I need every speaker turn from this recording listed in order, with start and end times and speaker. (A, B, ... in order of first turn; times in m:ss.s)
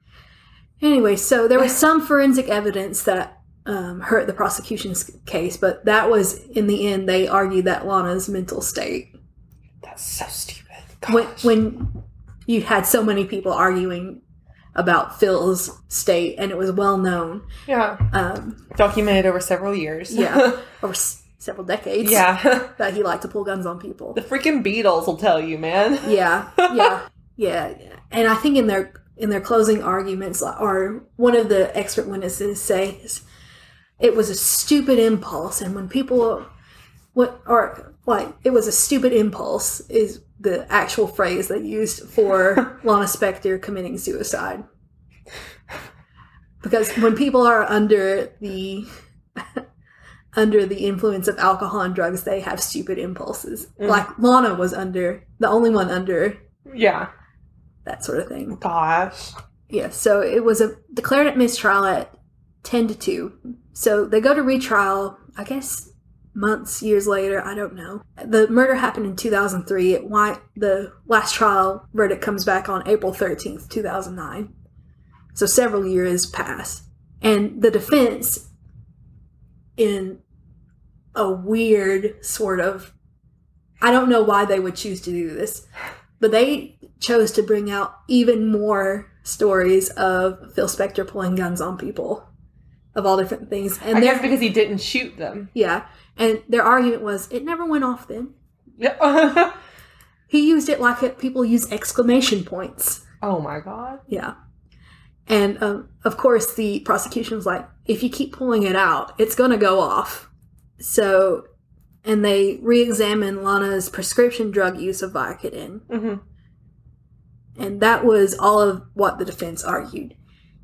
0:00.8-0:09.1 A
0:09.8-0:11.5 B
0:11.1-0:11.9 A
0:12.5-0:14.2 A
0:14.8-0:17.4 A
0:17.7-0:18.0 B
0:18.1-0:18.6 A
0:18.7-0:20.6 B
0:20.1-0:24.2 A
0:22.0-0:22.7 B
0:24.2-0:26.9 B
0:26.0-0:33.2 A
0:34.0-0:36.5 A
0:37.1-0:44.6 A
0:46.6-0:48.9 A
0:50.4-0:56.4 A
0:56.7-0:57.1 B
0:57.9-0:58.6 A
0:58.6-0:59.4 B
0:59.7-1:14.5 A
1:15.4-1:18.4 A
1:19.8-1:20.2 A
1:21.2-1:22.9 A
1:23.8-1:25.6 A
1:26.2-1:32.3 A
1:33.0-1:34.4 A
1:33.9-1:35.5 B
1:35.5-1:38.3 A
1:38.8-1:39.6 B
1:40.3-1:43.0 A
1:43.2-1:44.0 B
1:44.1-1:44.3 A
1:45.3-1:50.3 A
1:50.8-1:51.4 A
1:52.0-1:55.9 A
1:55.9-1:56.2 B
1:57.6-2:00.2 A